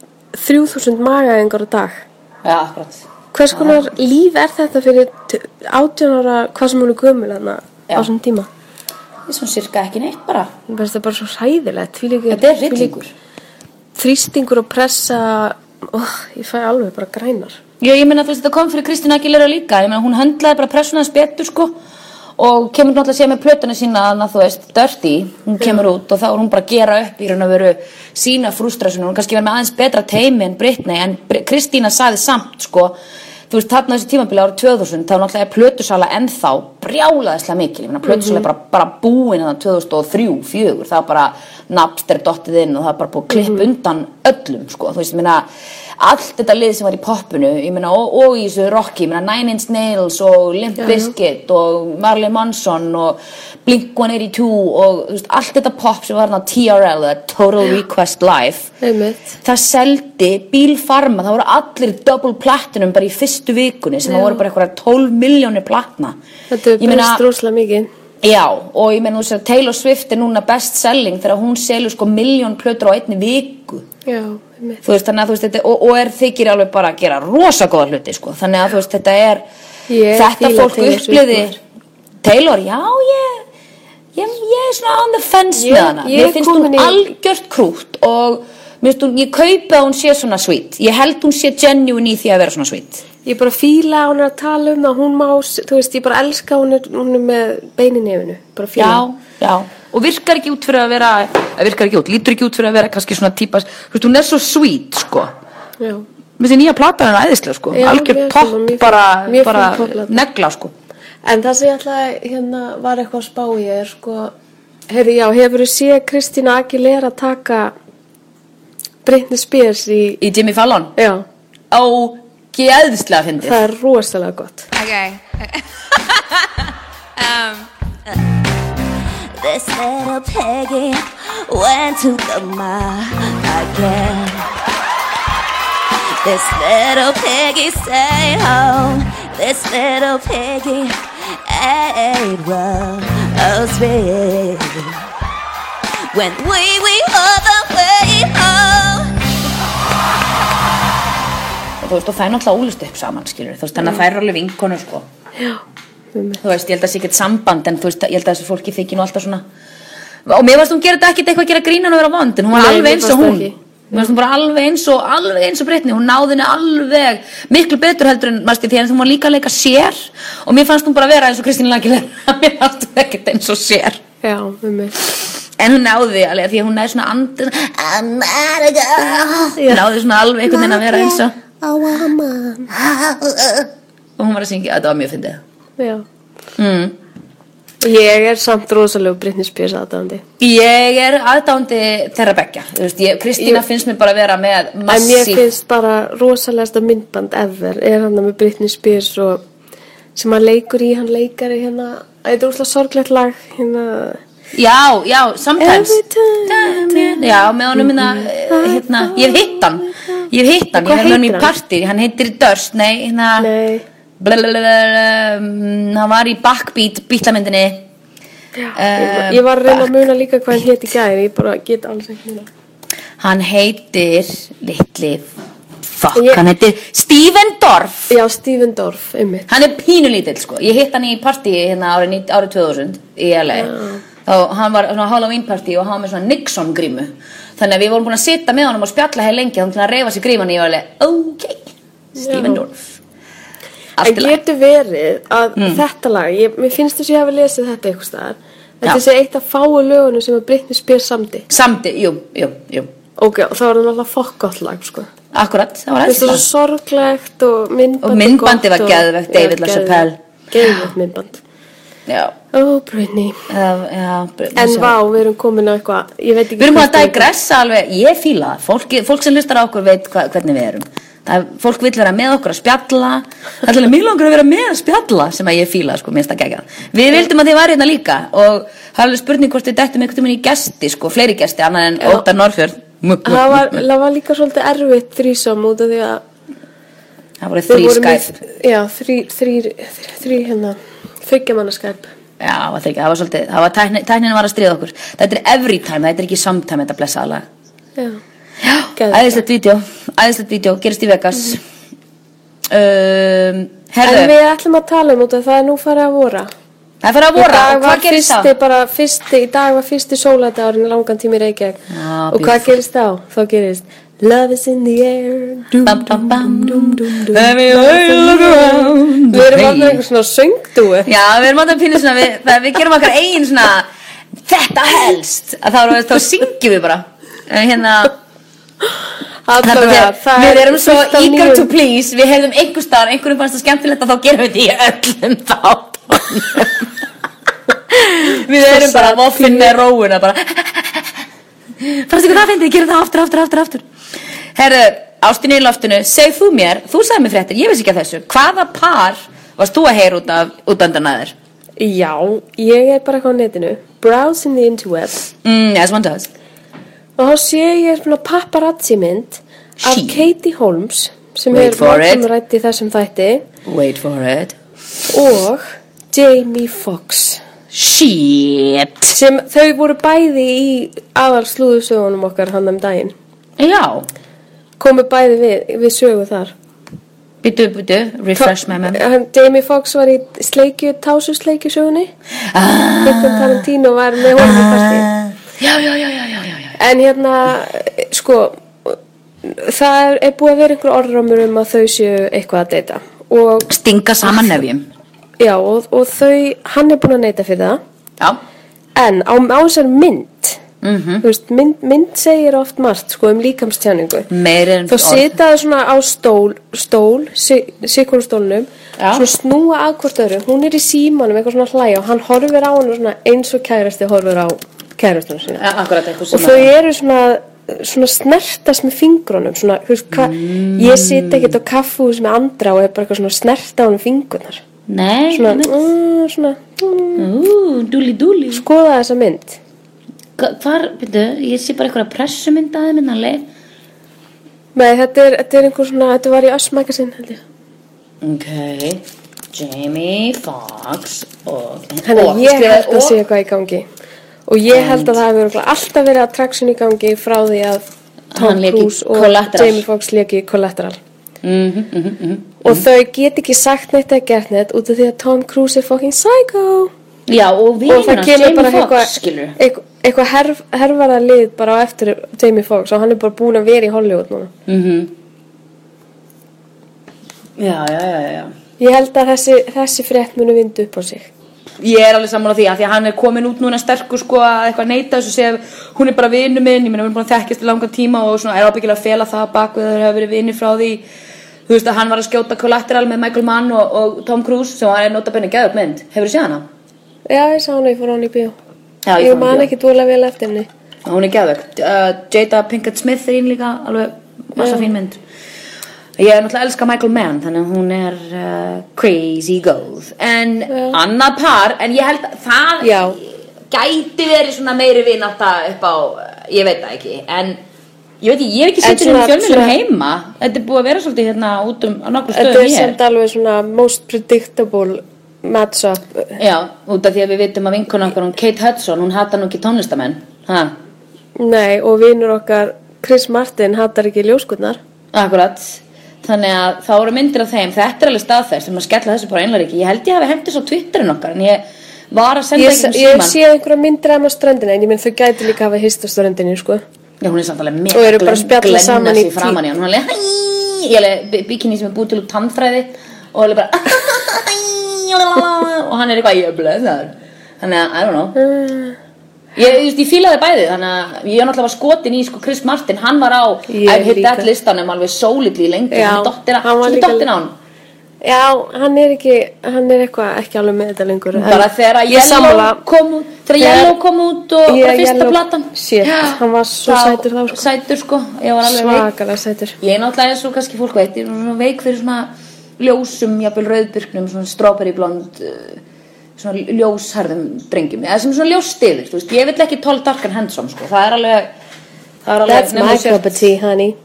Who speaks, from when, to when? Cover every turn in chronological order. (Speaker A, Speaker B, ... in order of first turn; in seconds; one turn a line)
Speaker A: 0.3-2.0
Speaker B: 2.4-3.8
Speaker A: 3.3-8.5
Speaker B: 9.2-10.5
Speaker A: 10.7-12.9
Speaker B: 12.3-13.1
Speaker A: 13.9-17.6
Speaker B: 17.8-21.8
Speaker B: 22.4-33.0
Speaker B: 33.5-45.4
Speaker A: 38.1-38.5
Speaker B: 46.0-58.7
Speaker A: 50.8-51.1
Speaker A: 58.8-59.3
Speaker B: 59.4-66.2
Speaker A: 64.1-64.4
Speaker A: 66.5-67.9
Speaker B: 66.8-67.2
Speaker B: 68.2-73.8
Speaker A: 74.0-74.8
Speaker B: 74.8-79.5
Speaker A: 79.9-81.5
Speaker B: 80.1-81.6
Speaker B: 82.2-83.4
Speaker B: 84.1-93.0
Speaker A: 85.5-87.0
Speaker A: 93.2-99.0
Speaker B: 98.8-105.3
Speaker A: 105.8-106.0
Speaker B: 106.4-110.7
Speaker A: 107.7-110.1
Speaker A: 111.2-114.3
Speaker A: 114.9-117.7
Speaker A: 119.0-120.2
Speaker B: 120.2-120.9
Speaker A: 121.0-121.2
Speaker B: 121.7-123.6
Speaker A: 123.4-124.7
Speaker C: 124.8-126.2
Speaker C: 127.2-127.7
Speaker C: 129.3-134.5
Speaker C: 136.2-145.0
Speaker C: 146.1-149.2
Speaker B: 151.8-155.1
Speaker A: 156.1-156.4
Speaker B: 156.4-159.4
Speaker B: 160.2-174.0
Speaker A: 162.5-164.1
Speaker A: 174.2-175.0
Speaker B: 175.6-181.3
Speaker A: 179.6-179.8
Speaker A: 180.4-182.7
Speaker B: 182.7-185.4
Speaker A: 185.8-186.0
Speaker B: 186.6-187.0
Speaker A: 187.8-190.2
Speaker B: 190.4-195.4
Speaker A: 193.4-193.6
Speaker A: 194.9-199.4
Speaker A: 200.1-204.2
Speaker B: 204.5-213.5
Speaker A: 205.6-211.5
Speaker A: 213.4-213.8
Speaker B: 214.2-217.9
Speaker A: 218.6-222.5
Speaker B: 218.7-220.0
Speaker B: 223.2-225.3
Speaker B: 225.8-228.1
Speaker A: 226.1-226.4
Speaker A: 228.1-229.5
Speaker B: 229.5-242.9
Speaker A: 233.5-234.0
Speaker A: 242.2-242.6
Speaker B: 244.0-244.4
Speaker A: 244.0-251.4
Speaker B: 245.6-245.8
Speaker B: 251.5-252.9
Speaker A: 253.2-255.1
Speaker B: 255.3-256.5
Speaker A: 256.0-261.4
Speaker B: 258.0-260.9
Speaker B: 262.1-262.4
Speaker A: 262.5-263.4
Speaker B: 263.5-265.0
Speaker A: 264.6-267.3
Speaker B: 266.6-283.8
Speaker A: 283.2-286.2
Speaker B: 287.4-288.4
Speaker A: 287.7-292.1
Speaker B: 292.4-297.4
Speaker B: 298.6-301.6
Speaker A: 298.9-299.4
Speaker B: 302.7-304.3
Speaker A: 304.0-306.5
Speaker B: 307.0-308.5
Speaker A: 307.3-321.1
Speaker B: 311.9-312.7
Speaker B: 315.8-320.0
Speaker B: 321.1-323.9
Speaker B: 324.4-328.1
Speaker A: 329.4-331.7
Speaker B: 329.6-336.9
Speaker B: 337.9-341.2
Speaker A: 338.6-339.7
Speaker B: 341.8-343.8
Speaker B: 344.5-351.3
Speaker A: 351.8-355.3
Speaker B: 355.4-356.3
Speaker A: 357.2-363.4
Speaker B: 359.8-360.2
Speaker B: 361.5-362.2
Speaker B: 363.6-364.6
Speaker A: 365.1-367.4
Speaker B: 367.7-369.1
Speaker A: 369.1-373.1
Speaker B: 373.6-374.1
Speaker A: 374.8-376.5
Speaker B: 377.4-379.0
Speaker A: 378.4-382.1
Speaker B: 382.5-383.6
Speaker A: 383.0-385.1
Speaker B: 384.3-386.7
Speaker A: 386.8-393.7
Speaker B: 393.7-394.9
Speaker A: 395.4-397.8
Speaker A: 398.9-400.6
Speaker B: 400.8-401.2
Speaker A: 401.2-404.3
Speaker B: 404.3-405.3
Speaker A: 404.9-415.6
Speaker B: 409.0-409.3
Speaker B: 415.6-416.7
Speaker A: 416.3-424.6
Speaker B: 420.1-421.6
Speaker B: 424.9-425.9
Speaker A: 425.3-427.3
Speaker B: 427.2-428.6
Speaker A: 428.5-429.6
Speaker B: 430.4-433.5
Speaker A: 434.7-437.4
Speaker B: 438.2-439.0
Speaker B: 439.5-443.2
Speaker A: 442.0-443.9
Speaker A: 444.5-447.8
Speaker B: 444.7-445.2
Speaker B: 448.3-449.8
Speaker A: 448.3-451.0
Speaker B: 451.4-452.8
Speaker A: 452.6-456.9
Speaker B: 457.3-459.6
Speaker A: 457.9-464.5
Speaker B: 464.7-465.1
Speaker B: 467.6-468.5
Speaker A: 468.8-471.3
Speaker B: 471.8-481.0
Speaker B: 481.7-486.6
Speaker A: 487.3-488.5
Speaker B: 489.1-489.7
Speaker A: 489.2-490.7
Speaker B: 491.0-495.2
Speaker A: 494.6-494.9
Speaker B: 496.2-507.6
Speaker A: 500.7-501.0
Speaker A: 502.8-503.2
Speaker B: 508.2-513.0
Speaker A: 508.8-509.7
Speaker A: 512.3-516.4
Speaker B: 516.4-520.7
Speaker A: 521.4-524.8
Speaker B: 525.1-533.4
Speaker A: 532.5-536.8
Speaker B: 537.2-548.4
Speaker A: 537.9-539.6
Speaker A: 548.4-549.0
Speaker B: 549.5-557.5
Speaker A: 553.7-554.5
Speaker A: 555.9-557.3
Speaker A: 558.2-562.8
Speaker B: 561.3-569.1
Speaker A: 563.6-563.9
Speaker A: 564.6-567.6
Speaker A: 568.6-569.8
Speaker B: 569.8-575.8
Speaker B: 576.4-581.5
Speaker B: 582.2-583.4
Speaker A: 582.5-584.0